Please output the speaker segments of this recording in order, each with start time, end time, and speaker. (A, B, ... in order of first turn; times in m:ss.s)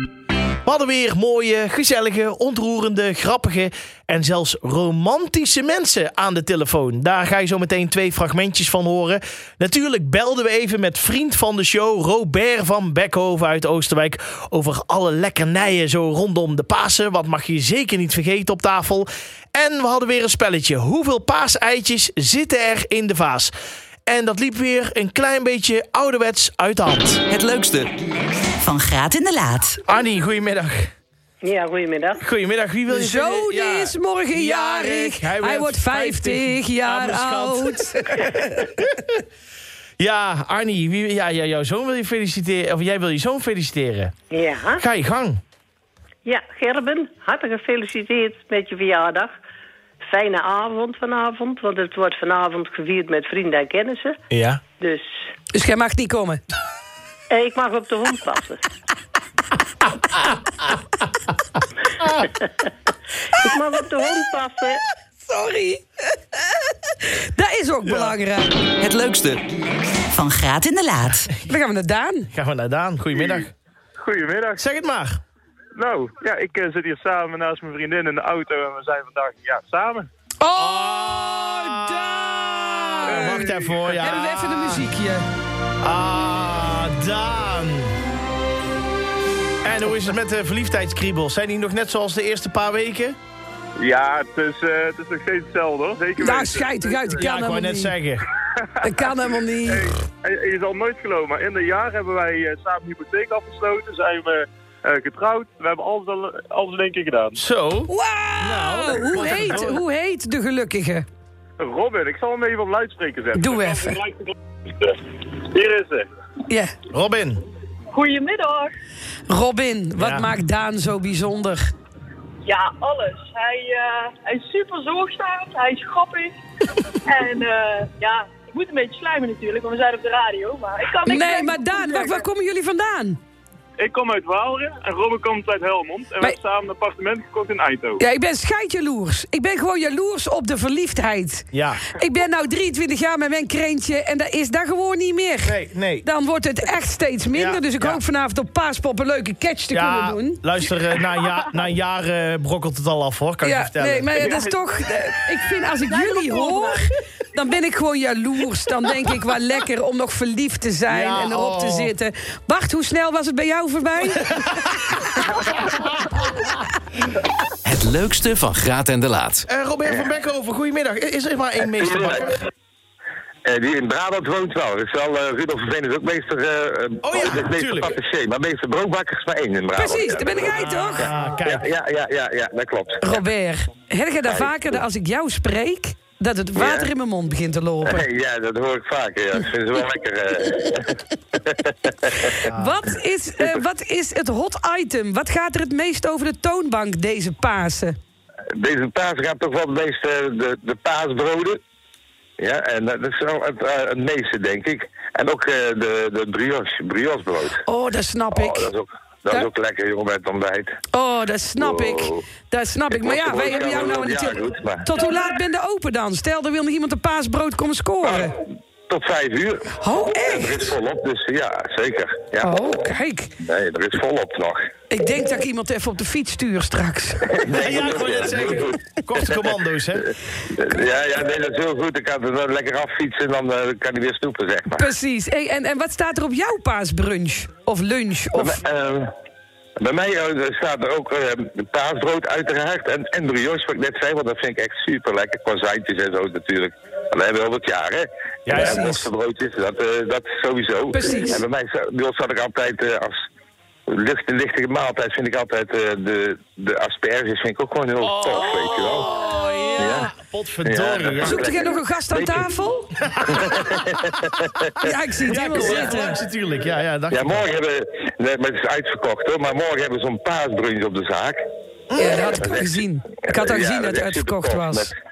0:00.6-0:23.5 A
0:24.0-0:27.2 A
0:27.3-0:27.9 B
0:28.6-0:29.8 C
0:29.8-0:30.9 A
0:31.4-0:32.2 D
0:32.2-0:39.0 A
0:32.9-0:38.3 E
0:40.0-0:44.1 A
0:44.3-0:44.8 D
0:44.8-0:45.4 A
0:46.2-0:49.3 D
0:50.0-0:54.2 D
0:54.3-0:54.6 A
0:54.8-0:55.1 D
0:55.5-0:56.4 E
0:57.3-0:58.6 D
1:02.2-1:02.5 D
1:03.4-1:04.8 D
1:05.2-1:05.8 E
1:07.0-1:08.6 E
1:07.8-1:08.2 A
1:08.8-1:09.4 B
1:10.1-1:11.3 C
1:11.4-1:12.3 E
1:12.3-1:13.5 A
1:13.2-1:13.4 F
1:14.0-1:14.6 F
1:14.6-1:15.2 A
1:15.7-1:20.1 F
1:20.4-1:25.2 E
1:20.5-1:24.8 A
1:23.1-1:23.8 F
1:25.8-1:28.0 A
1:29.6-1:33.2 A
1:33.8-1:37.2 F
1:36.2-1:37.9 E
1:37.2-1:38.2 A
1:38.8-1:39.8 E
1:39.7-1:47.3 F
1:47.3-1:49.8 A
1:47.9-1:51.0 E
1:51.6-1:56.0 F
1:53.3-1:54.0 E
1:56.5-1:56.7 E
1:56.9-1:57.4 A
1:57.9-1:58.7 G
1:59.3-2:01.7 E
2:00.0-2:00.3 A
2:02.4-2:06.3 G
2:07.1-2:11.5 G
2:10.8-2:12.1 F
2:11.0-2:13.2 E
2:13.8-2:18.0 F
2:18.0-2:30.4 E
2:21.5-2:21.8 A
2:25.4-2:26.0 A
2:27.3-2:28.0 A
2:29.7-2:34.4 A
2:33.4-2:44.2 E
2:36.0-2:36.4 G
2:40.9-2:41.9 A
2:44.4-2:44.9 A
2:45.6-2:46.4 A
2:47.6-2:49.4 B
2:49.5-2:52.4 A
2:51.7-2:52.2 H
2:53.4-3:03.2 H
2:57.0-2:58.0 A
2:59.7-3:01.1 E
3:00.9-3:01.6 A
3:03.0-3:08.0 E
3:04.3-3:04.8 H
3:06.6-3:06.9 H
3:07.8-3:10.9 H
3:11.4-3:12.3 H
3:12.4-3:18.0 E
3:12.4-3:12.8 A
3:18.6-3:21.6 H
3:22.4-3:27.6 H
3:27.6-3:28.7 E
3:28.3-3:30.7 H
3:30.9-3:38.3 E
3:31.6-3:32.2 H
3:32.9-3:34.9 H
3:38.0-3:39.7 H
3:39.8-3:40.6 E
3:40.3-3:42.5 H
3:42.4-3:43.3 E
3:43.4-3:44.6 H
3:44.9-3:47.2 E
3:47.4-3:49.2 H
3:47.5-3:50.1 A
3:50.5-3:54.9 H
3:54.7-3:58.6 E
3:58.3-3:59.0 H
3:59.8-4:13.1 H
4:08.4-4:08.9 A
4:08.5-4:09.0 E
4:10.9-4:11.4 E
4:13.9-4:19.1 H
4:18.0-4:21.4 A
4:19.8-4:20.1 H
4:20.6-4:22.5 H
4:21.2-4:22.9 E
4:23.1-4:23.7 A
4:23.4-4:24.7 H
4:24.8-4:26.2 E
4:25.2-4:27.5 A
4:27.1-4:31.4 H
4:31.9-4:32.4 A
4:32.0-4:34.9 H
4:32.0-4:34.9 E